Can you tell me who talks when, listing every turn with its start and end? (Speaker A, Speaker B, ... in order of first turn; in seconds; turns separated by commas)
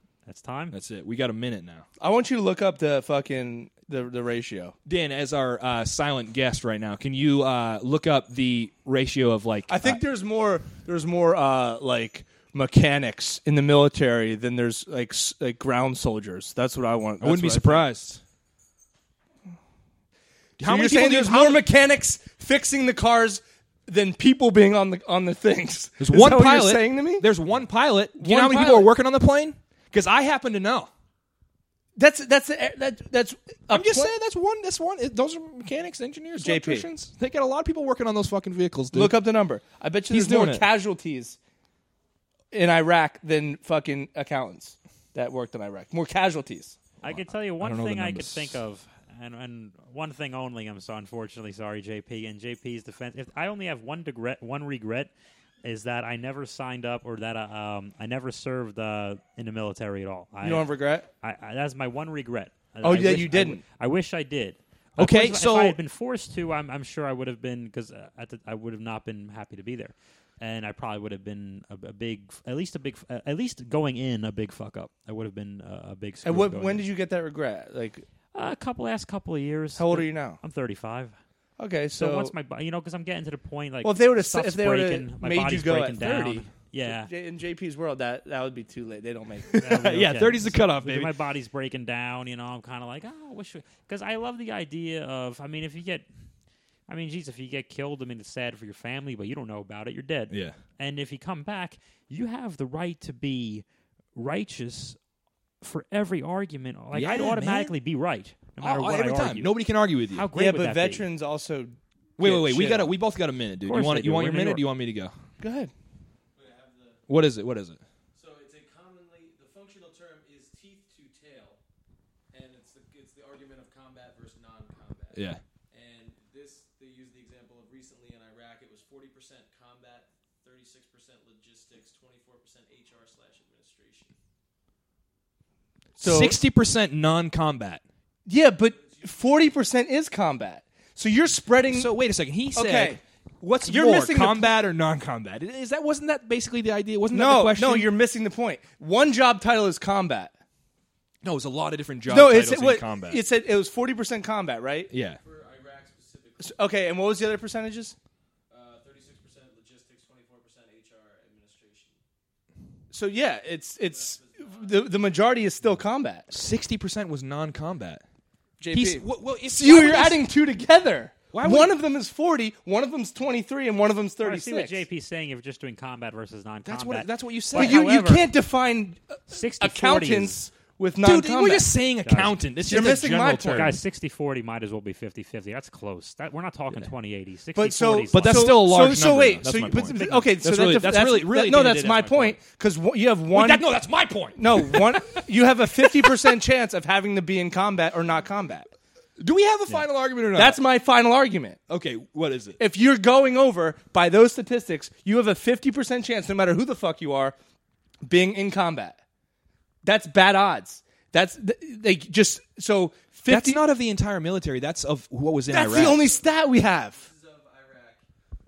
Speaker A: 0.2-0.7, Speaker B: 0.7-1.9, Speaker C: 2.0-4.7, Speaker B: 4.8-10.0, Speaker C: 9.7-17.9, Speaker B: 17.2-18.2, Speaker B: 20.6-21.6, Speaker C: 20.6-27.3, Speaker B: 26.0-30.9, Speaker C: 28.2-28.9, Speaker C: 31.9-34.1, Speaker B: 33.7-39.2, Speaker C: 36.4-36.9, Speaker C: 38.9-41.4, Speaker B: 40.1-40.6, Speaker C: 42.5-46.8, Speaker A: 47.0-55.1, Speaker B: 47.0-48.6, Speaker A: 55.6-60.6, Speaker C: 60.4-61.1, Speaker A: 61.2-76.8, Speaker C: 62.8-63.6, Speaker B: 65.0-65.8, Speaker C: 76.2-78.0, Speaker A: 78.3-81.2, Speaker C: 79.8-80.4, Speaker C: 81.6-82.3, Speaker A: 81.9-87.1, Speaker C: 83.8-89.8, Speaker A: 89.6-96.0, Speaker B: 89.6-91.1, Speaker A: 96.9-105.0, Speaker B: 100.3-100.6, Speaker A: 105.6-109.6, Speaker B: 106.9-107.7, Speaker B: 108.6-110.3, Speaker A: 110.1-111.0, Speaker C: 110.3-112.9, Speaker B: 112.2-115.1, Speaker A: 113.7-114.6, Speaker C: 115.4-115.7, Speaker D: 116.3-117.0, Speaker B: 117.1-117.8, Speaker D: 118.1-121.6, Speaker D: 122.3-134.1, Speaker B: 125.1-125.4, Speaker C: 136.0-136.4, Speaker B: 136.0-137.8, Speaker C: 138.3-141.9, Speaker D: 138.8-139.3, Speaker B: 141.7-147.9, Speaker C: 142.5-143.0, Speaker C: 143.6-144.5, Speaker C: 147.1-150.3, Speaker B: 151.2-153.2, Speaker C: 152.1-154.9, Speaker B: 154.9-155.2, Speaker D: 155.2-156.6, Speaker C: 156.4-157.9, Speaker D: 158.5-162.0, Speaker C: 162.9-166.3, Speaker D: 163.8-164.9, Speaker B: 166.3-168.0, Speaker C: 168.6-174.8, Speaker B: 168.7-170.2, Speaker B: 171.3-171.7, Speaker A: 174.2-178.3, Speaker B: 176.6-177.9, Speaker C: 177.5-181.7, Speaker A: 179.3-180.4, Speaker B: 181.0-183.8, Speaker A: 182.0-182.4, Speaker C: 182.6-183.7, Speaker A: 183.5-188.5, Speaker C: 187.5-193.7, Speaker B: 188.1-192.3, Speaker B: 193.3-195.2, Speaker C: 194.3-198.7, Speaker B: 195.8-196.1, Speaker B: 199.2-200.6, Speaker C: 200.3-201.6, Speaker B: 201.7-202.6, Speaker C: 202.6-207.3, Speaker C: 208.0-209.0, Speaker C: 209.8-213.6, Speaker B: 213.3-216.0, Speaker C: 215.5-217.1, Speaker D: 215.7-216.3, Speaker D: 216.9-218.0